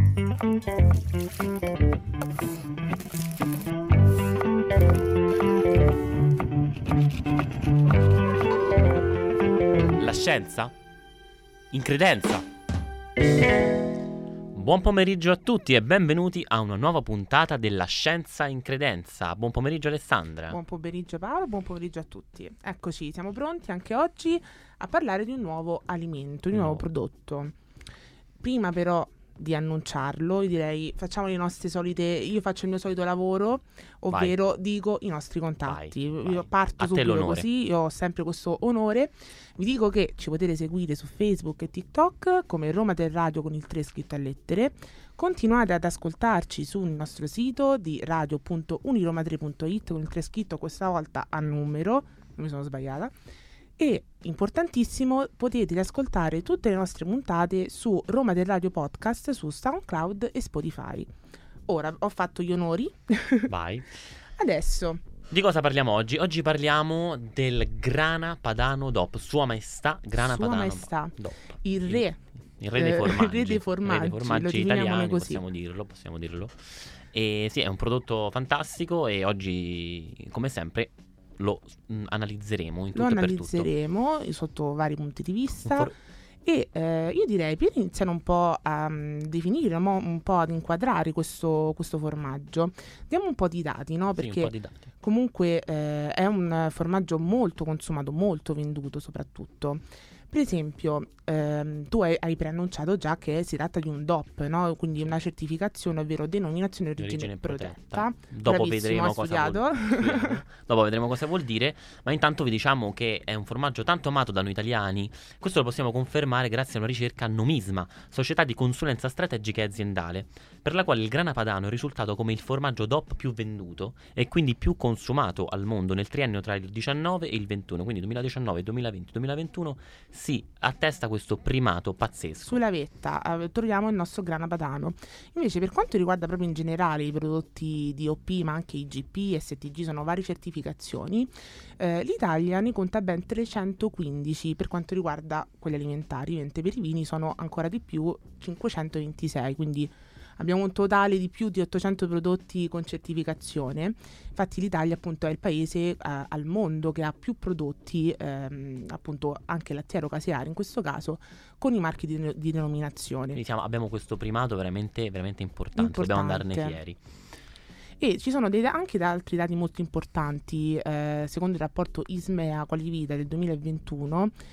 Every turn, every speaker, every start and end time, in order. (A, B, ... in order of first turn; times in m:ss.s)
0:10.0-0:10.8 A
0:11.7-0:12.5 A
0:14.5-0:20.6 A
0:20.5-0:27.6 B
0:26.5-0:26.8 A
0:28.4-0:53.1 B
0:34.1-0:34.4 A
0:35.6-0:37.5 A
0:53.8-1:01.1 B
1:01.7-1:03.5 B
1:03.5-1:03.9 A
1:04.2-1:05.0 B
1:05.3-1:23.7 A
1:10.2-1:12.2 B
1:12.8-1:15.4 B
1:22.9-1:25.9 B
1:25.6-1:25.9 A
1:26.4-1:50.4 B
1:34.2-1:34.9 A
1:47.0-2:12.6 A
2:12.5-2:43.4 B
2:43.3-2:47.0 A
2:45.8-2:46.8 B
2:48.0-2:54.3 B